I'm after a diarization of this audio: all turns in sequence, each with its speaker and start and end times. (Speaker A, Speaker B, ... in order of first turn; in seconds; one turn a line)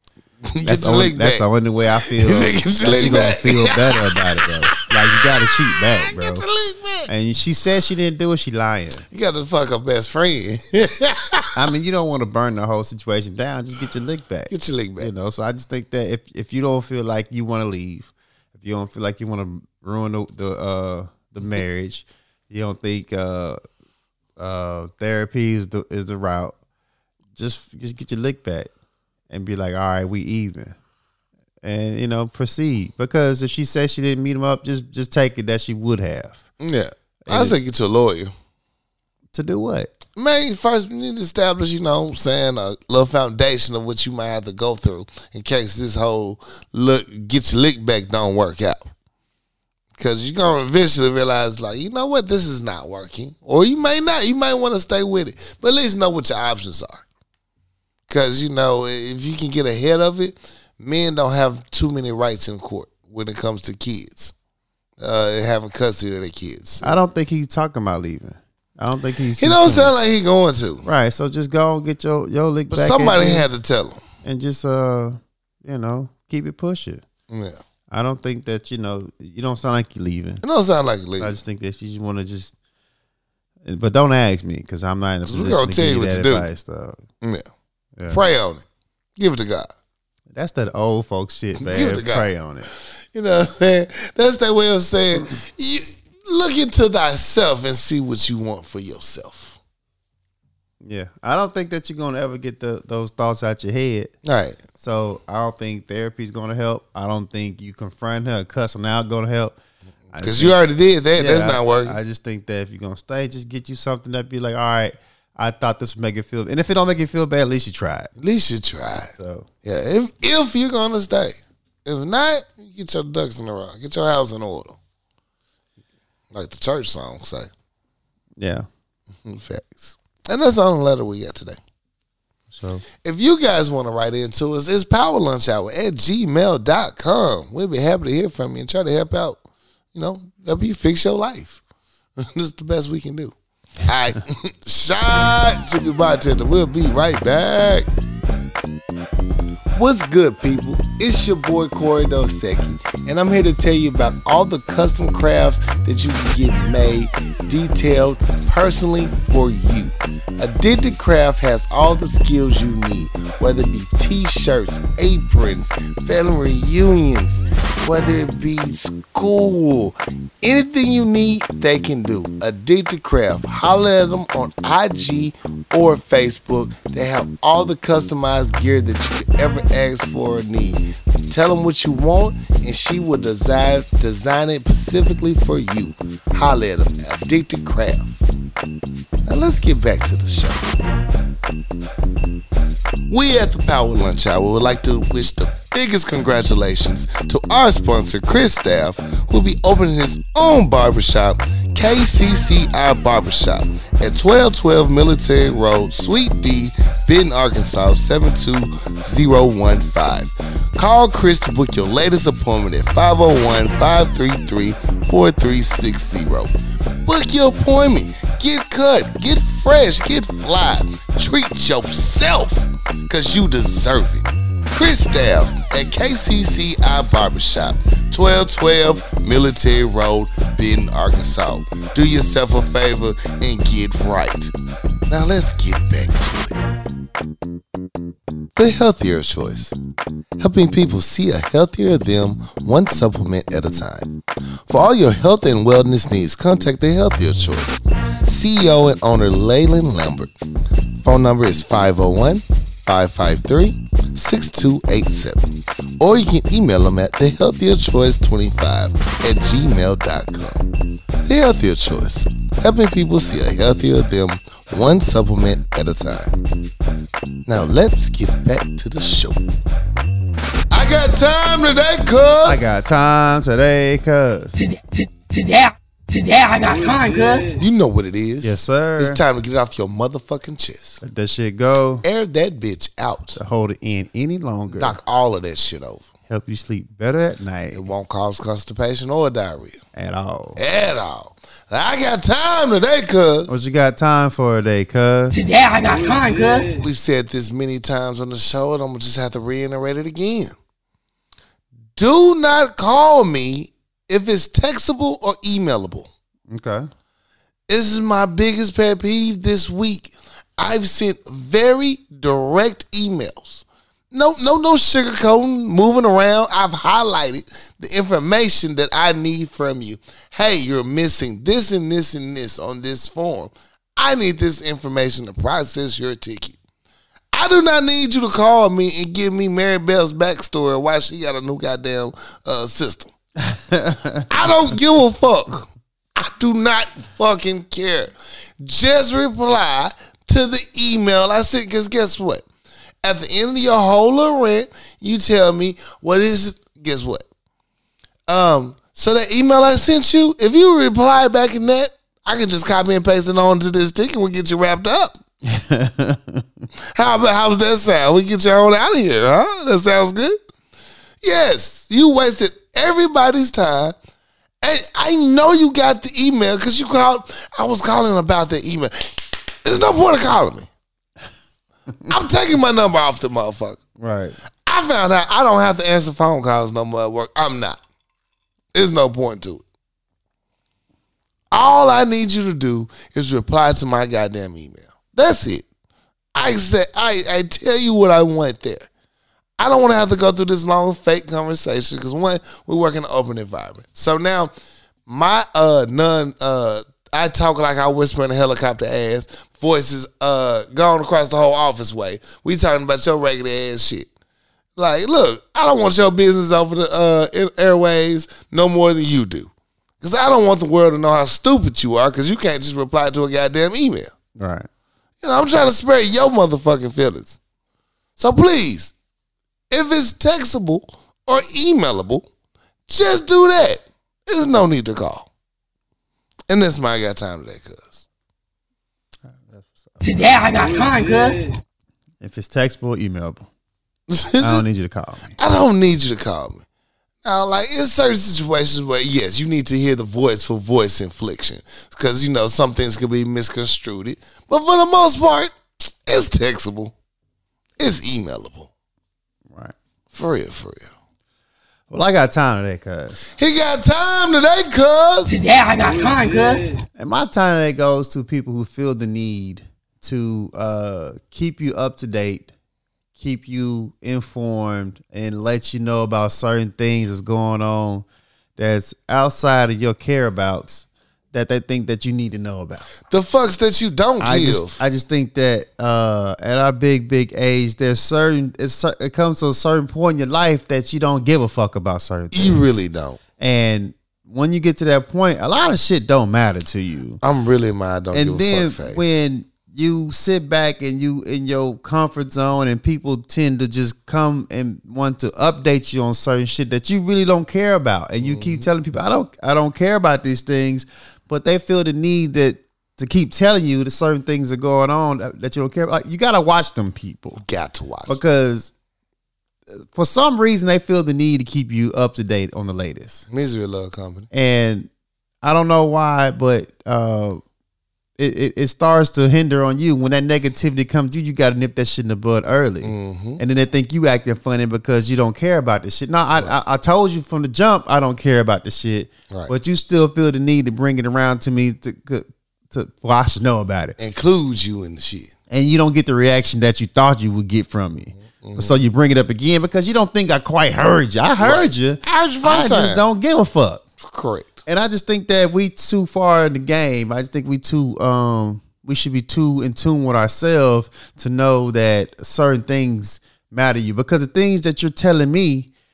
Speaker A: 0.5-1.5
Speaker B: 0.6-6.5
Speaker A: 2.0-5.2
Speaker A: 5.7-7.1
Speaker B: 7.1-9.1
Speaker A: 9.1-11.6
Speaker B: 11.6-23.6
Speaker A: 14.5-15.1
Speaker B: 24.4-26.6
Speaker B: 27.4-28.7
Speaker B: 29.3-30.8
Speaker B: 31.6-36.4
Speaker A: 36.6-38.3
Speaker B: 37.3-37.6
Speaker B: 39.3-39.9
Speaker A: 40.2-48.9
Speaker A: 50.0-57.0
Speaker A: 58.1-64.3
Speaker A: 65.0-67.0
Speaker B: 66.8-69.9
Speaker A: 69.4-70.9
Speaker B: 70.8-73.5
Speaker A: 72.7-74.0
Speaker B: 74.2-77.0
Speaker A: 77.3-77.6
Speaker B: 77.9-80.4
Speaker A: 80.4-81.3
Speaker B: 81.2-82.5
Speaker B: 83.7-87.0
Speaker A: 85.3-86.5
Speaker B: 88.0-88.2
Speaker A: 88.1-88.6
Speaker A: 89.2-89.7
Speaker B: 90.3-92.7
Speaker A: 91.6-92.3
Speaker A: 93.1-99.6
Speaker B: 100.8-104.1
Speaker A: 104.2-104.6
Speaker B: 104.8-109.5
Speaker B: 110.1-110.6
Speaker A: 110.2-112.0
Speaker B: 111.2-118.1
Speaker A: 118.2-124.8
Speaker B: 119.2-119.5
Speaker A: 126.3-127.5
Speaker B: 128.4-128.7
Speaker A: 129.2-131.6
Speaker B: 132.5-132.8
Speaker A: 133.0-139.4
Speaker A: 139.9-141.6
Speaker A: 142.2-147.9
Speaker A: 149.7-188.2
Speaker A: 189.3-190.7
Speaker A: 193.1-216.5
Speaker A: 217.0-234.5
Speaker A: 235.1-236.6
Speaker A: 238.6-239.7
Speaker A: 240.4-244.1
Speaker A: 244.7-250.3
Speaker A: 251.0-255.5
Speaker A: 256.0-260.7
Speaker A: 261.2-266.3
Speaker A: 267.5-269.5
Speaker A: 270.7-272.6
Speaker B: 272.4-274.6
Speaker C: 274.6-277.6
Speaker A: 277.6-281.0
Speaker B: 278.4-279.2
Speaker B: 281.0-282.1
Speaker A: 282.0-283.4
Speaker B: 283.4-285.0
Speaker A: 284.7-286.1
Speaker B: 286.3-287.8
Speaker A: 287.7-289.8
Speaker B: 289.9-290.6
Speaker A: 290.6-293.5
Speaker B: 293.5-295.4
Speaker C: 295.3-296.8
Speaker A: 296.8-300.6
Speaker A: 302.0-306.1
Speaker B: 306.5-306.9
Speaker A: 307.7-326.6
Speaker A: 327.3-333.1
Speaker B: 333.4-334.5
Speaker A: 334.3-342.4
Speaker A: 343.0-347.2
Speaker A: 348.3-355.2
Speaker B: 355.4-356.5
Speaker A: 356.9-360.4
Speaker A: 361.2-363.9
Speaker A: 364.6-370.7
Speaker A: 372.1-373.8
Speaker B: 374.0-374.4
Speaker A: 374.7-377.8
Speaker A: 378.7-379.6
Speaker A: 381.5-385.7
Speaker A: 386.4-388.9
Speaker A: 389.6-394.5
Speaker A: 395.1-404.1
Speaker A: 404.8-414.1
Speaker B: 414.4-414.7
Speaker A: 415.2-417.4
Speaker A: 418.2-418.9
Speaker A: 419.7-422.3
Speaker A: 422.9-425.3
Speaker A: 426.5-428.1
Speaker B: 429.3-430.0
Speaker C: 430.0-431.6
Speaker B: 432.2-433.5
Speaker A: 434.1-434.6
Speaker B: 434.4-435.4
Speaker A: 435.4-436.6
Speaker A: 437.2-446.9
Speaker A: 447.8-448.7
Speaker A: 450.1-450.9
Speaker B: 451.9-453.3
Speaker A: 453.4-455.4
Speaker C: 455.3-456.8
Speaker B: 457.0-462.5
Speaker B: 463.2-468.1
Speaker B: 468.6-472.9
Speaker A: 473.1-474.8
Speaker B: 474.2-482.8
Speaker A: 482.3-483.2
Speaker B: 483.4-487.2
Speaker A: 487.2-489.0
Speaker B: 488.1-507.4
Speaker A: 498.2-498.7
Speaker A: 507.4-508.2
Speaker B: 508.1-508.7
Speaker B: 509.7-513.3
Speaker A: 513.3-514.3
Speaker B: 514.3-514.9
Speaker B: 515.4-517.4
Speaker B: 518.2-534.0
Speaker A: 522.8-523.4
Speaker A: 534.0-535.3
Speaker B: 535.5-543.8
Speaker A: 538.2-538.8
Speaker A: 541.4-543.0
Speaker A: 544.0-544.6
Speaker B: 544.7-555.7